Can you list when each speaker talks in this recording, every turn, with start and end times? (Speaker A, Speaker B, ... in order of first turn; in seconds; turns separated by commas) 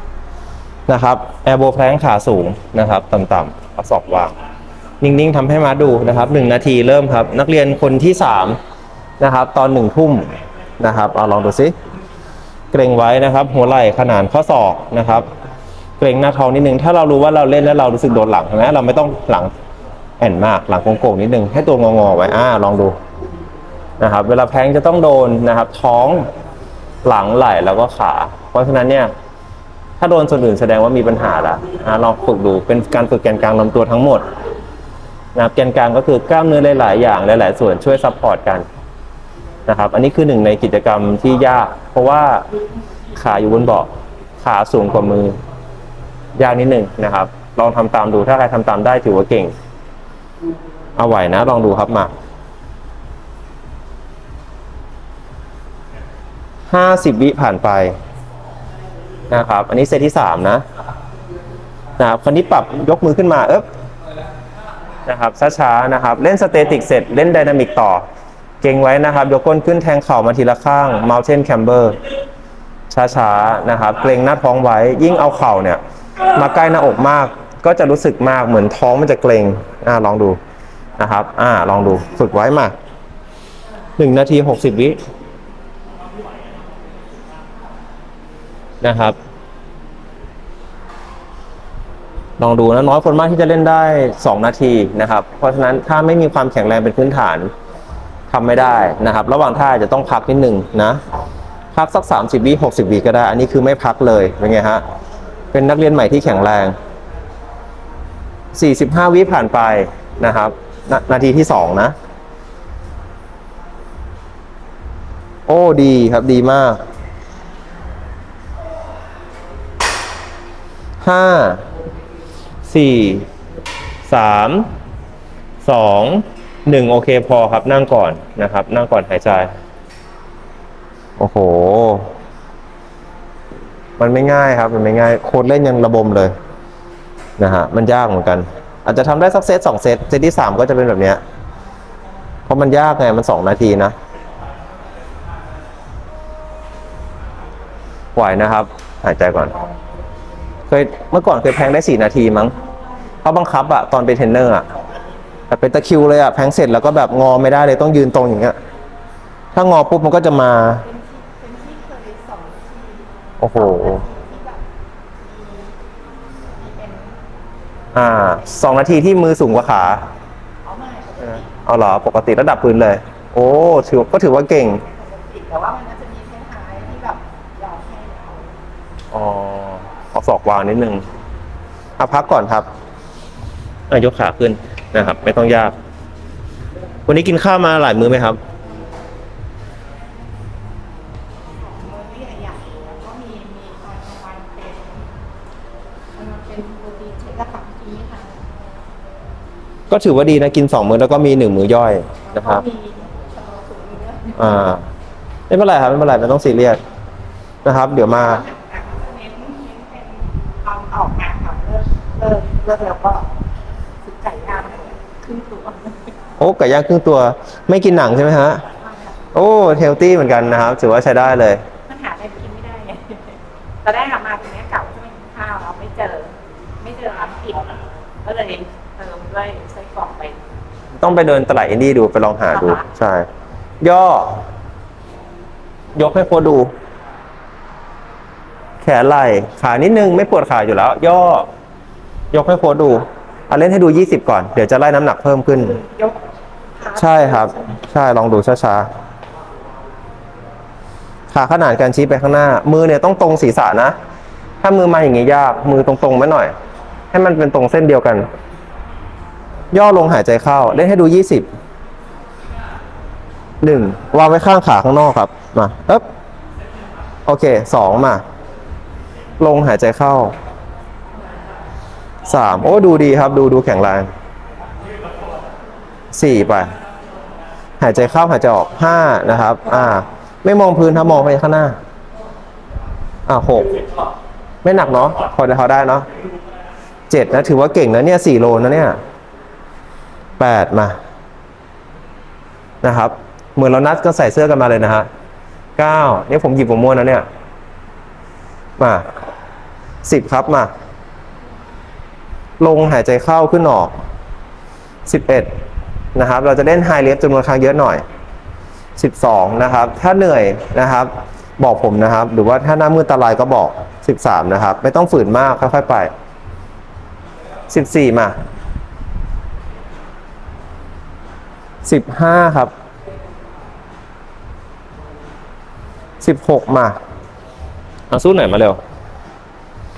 Speaker A: 0.9-4.3, Speaker A: 5.0-8.6, Speaker A: 9.2-11.7, Speaker A: 12.7-15.3, Speaker A: 16.0-19.5, Speaker A: 20.2-22.9, Speaker A: 24.0-26.3, Speaker A: 27.1-29.1, Speaker A: 30.0-34.2, Speaker A: 35.4-38.6, Speaker A: 39.7-42.5, Speaker A: 43.2-45.4, Speaker A: 46.4-49.5, Speaker A: 51.0-52.1, Speaker A: 56.7-58.0, Speaker A: 59.3-60.6, Speaker A: 62.0-63.7, Speaker A: 65.1-68.0, Speaker A: 68.6-72.0, Speaker A: 72.9-80.4, Speaker A: 81.0-82.7, Speaker A: 84.0-85.0, Speaker A: 88.8-89.2, Speaker A: 92.4-97.5, Speaker A: 98.3-101.0, Speaker A: 101.7-104.8, Speaker A: 105.5-106.8, Speaker A: 108.5-112.0, Speaker A: 115.5-116.8, Speaker A: 121.0-121.6, Speaker A: 122.7-123.3, Speaker A: 124.1-124.7, Speaker A: 125.6-129.5, Speaker A: 131.2-132.1, Speaker A: 134.0-136.4, Speaker A: 137.4-141.2, Speaker A: 142.5-143.9, Speaker A: 148.2-149.6, Speaker A: 150.7-152.6, Speaker A: 153.2-154.7, Speaker A: 155.5-158.6, Speaker A: 159.6-160.8, Speaker B: 160.8-164.6, Speaker A: 163.4-164.0, Speaker B: 165.2-165.8, Speaker B: 166.5-167.2, Speaker A: 167.9-170.1, Speaker B: 170.6-171.5, Speaker A: 171.2-174.8, Speaker B: 174.9-178.6, Speaker A: 179.1-181.0, Speaker A: 182.0-182.7, Speaker A: 183.9-185.7, Speaker A: 187.1-188.4, Speaker B: 191.5-195.1, Speaker B: 196.2-198.5, Speaker A: 199.9-202.6, Speaker B: 202.3-204.6, Speaker A: 204.4-204.8, Speaker A: 205.5-206.8, Speaker A: 207.7-208.4, Speaker B: 208.0-213.3, Speaker B: 214.0-216.1, Speaker A: 216.4-218.6, Speaker B: 218.8-219.2, Speaker A: 219.3-221.6, Speaker B: 221.9-230.4, Speaker A: 231.0-233.3, Speaker B: 232.5-232.8, Speaker A: 233.8-234.4, Speaker A: 235.9-236.7, Speaker A: 238.8-241.5, Speaker A: 242.3-245.8, Speaker B: 245.8-246.2, Speaker B: 246.8-247.8, Speaker A: 246.9-248.9, Speaker A: 251.3-254.0, Speaker A: 254.6-256.5, Speaker A: 257.1-258.3, Speaker A: 259.7-261.5, Speaker A: 263.6-266.0, Speaker A: 267.3-268.2, Speaker A: 269.4-270.4, Speaker A: 272.3-274.1, Speaker A: 276.1-276.7, Speaker A: 277.8-281.8, Speaker A: 283.3-283.8, Speaker A: 284.6-286.1, Speaker A: 287.1-289.0, Speaker A: 290.4-291.0, Speaker A: 292.8-295.1, Speaker A: 295.8-297.3, Speaker A: 298.8-299.1, Speaker A: 300.0-300.7, Speaker A: 302.6-303.9, Speaker A: 305.1-305.5, Speaker A: 306.1-308.0, Speaker A: 309.0-316.1, Speaker A: 317.7-318.4, Speaker A: 321.8-322.7, Speaker A: 326.2-327.0, Speaker A: 328.1-328.8